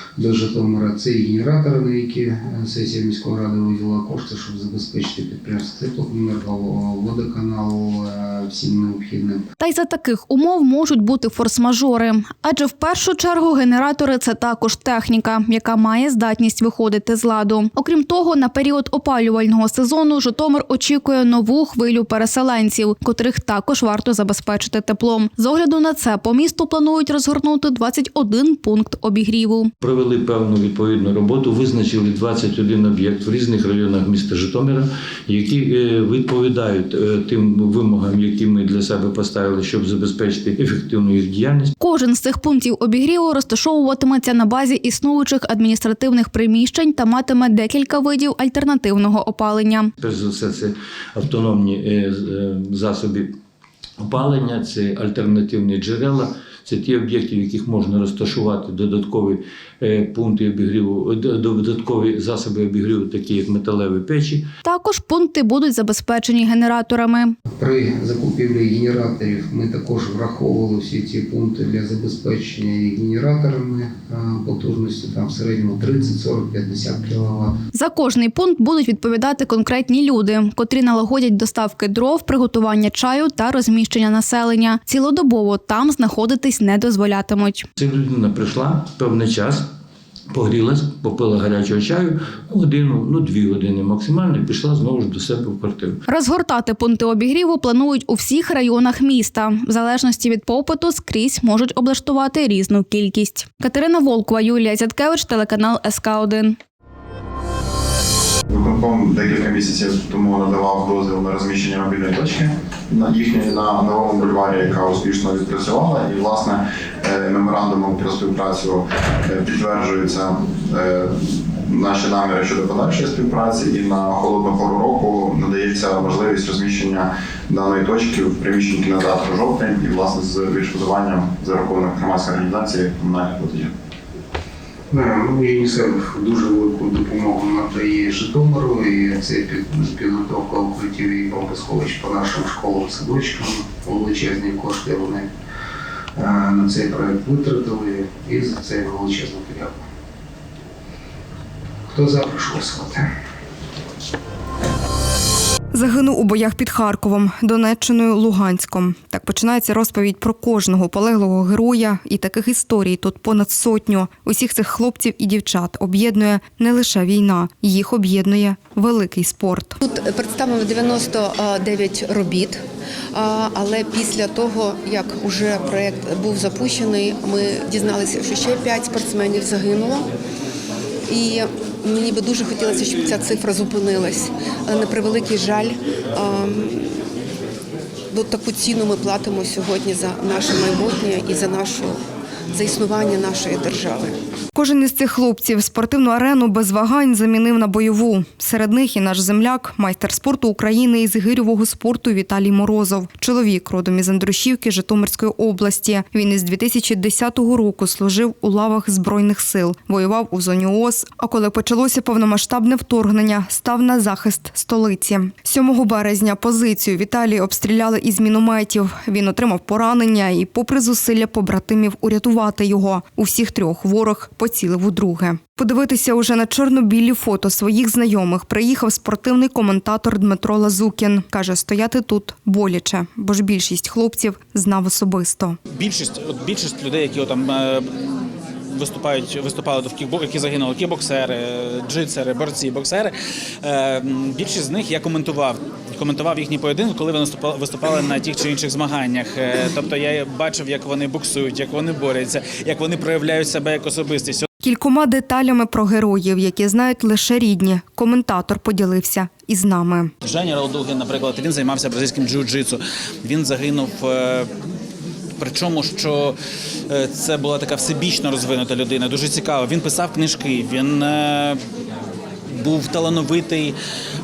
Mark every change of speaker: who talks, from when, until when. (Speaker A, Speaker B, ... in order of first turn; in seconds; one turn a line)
Speaker A: 0.2-9.4
Speaker B: 9.6-29.7
Speaker C: 29.8-41.7
Speaker B: 41.8-49.9
Speaker C: 50.0-53.3
Speaker C: 54.0-64.5
Speaker B: 64.6-67.3
Speaker A: 67.5-77.5
Speaker B: 77.7-87.7
Speaker C: 87.8-89.7
Speaker C: 90.3-96.0
Speaker B: 96.1-106.6
Speaker D: 108.5-121.1
Speaker D: 121.7-133.7
Speaker A: 134.9-145.3
Speaker A: 146.2-149.8
Speaker A: 151.9-153.1
Speaker E: 155.7-169.8
Speaker F: 169.8-172.6
Speaker F: 173.1-180.1
Speaker F: 181.1-187.0
Speaker F: 188.1-192.0
Speaker F: 192.5-194.1
Speaker E: 194.5-235.6
Speaker G: 235.8-237.8
Speaker G: 238.7-243.1
Speaker G: 243.6-254.4
Speaker E: 254.6-260.1
Speaker G: 260.2-264.5
Speaker G: 265.4-266.3
Speaker G: 266.9-271.6
Speaker G: 272.5-273.7